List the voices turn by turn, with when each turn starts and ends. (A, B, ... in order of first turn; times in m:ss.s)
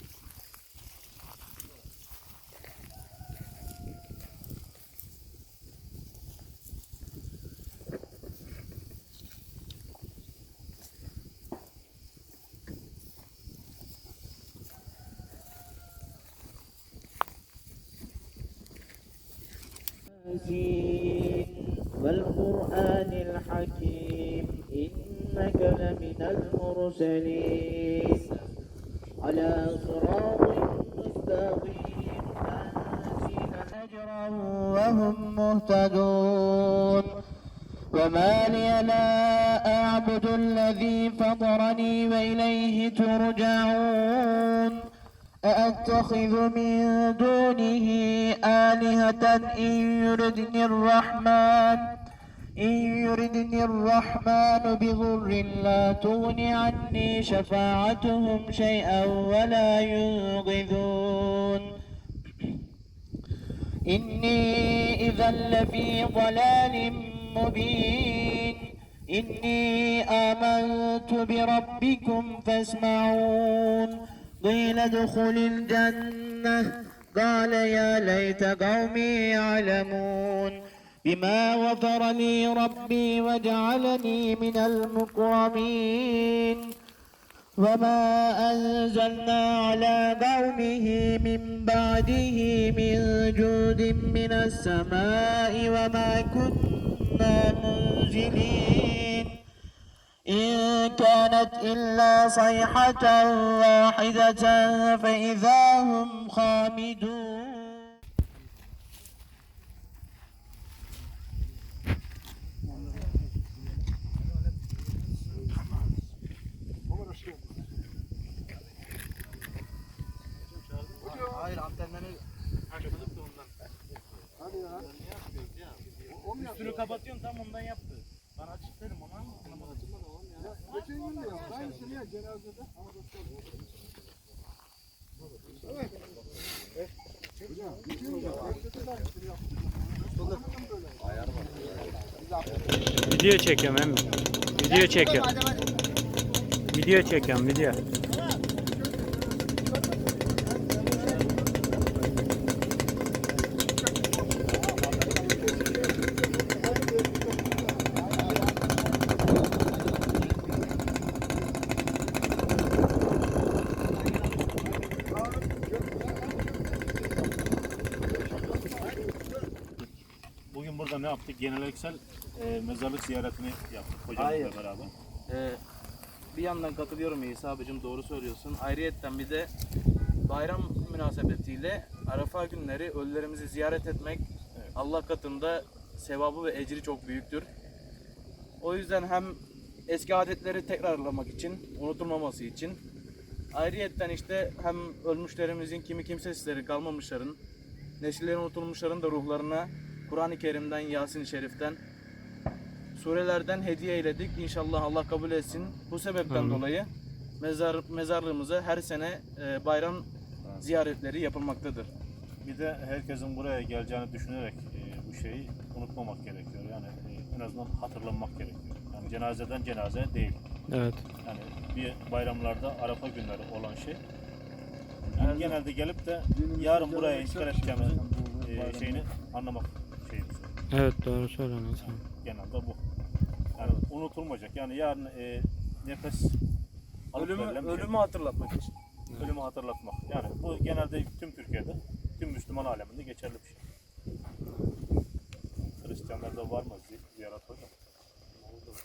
0:20.2-0:28.3 A
0:29.2-0:37.2 A
0:37.9-0:44.9 A
0:45.4-0:52.0 A
0:52.6-1:01.8 A
1:03.9-1:26.7 A
1:27.6-1:39.4 A
1:40.3-1:48.0 A
1:56.9-1:57.6 B
2:00.5-2:02.2 C
2:01.0-2:01.5 B
2:02.7-2:03.5 C
2:04.4-2:04.9 B
2:04.8-2:05.1 C
2:06.1-2:06.9 B
2:06.3-2:11.8 C
2:10.4-2:13.4 B
2:17.5-2:23.2 B
2:23.0-2:25.4 D
2:26.7-2:27.8 D
2:28.6-2:31.6 B
2:33.7-2:37.3 B
2:38.0-2:38.4 B
2:44.0-2:44.4 C
2:45.1-2:46.9 B
2:48.2-2:49.0 B
2:50.5-2:54.9 E
2:54.1-2:54.6 C
2:55.3-2:55.6 C
2:56.3-2:59.5 C
3:00.3-3:04.2 C
3:04.8-3:07.5 C
3:08.6-3:09.4 C
3:09.9-3:12.8 C
3:13.5-3:17.4 C
3:18.0-3:21.8 C
3:23.0-3:26.9 C
3:26.3-3:26.6 D
3:27.4-3:30.1 C
3:30.6-3:31.9 C
3:32.4-3:40.4 E
3:40.7-3:41.0 D
3:41.2-3:44.0 E
3:45.1-3:45.6 B
3:45.2-3:50.5 E
3:46.3-3:49.1 B
3:50.7-3:52.0 D
3:51.8-3:52.8 E
3:53.6-3:56.3 E
3:57.1-3:57.9 E
3:57.1-3:58.7 C
3:59.2-4:03.6 E
4:05.8-4:07.7 E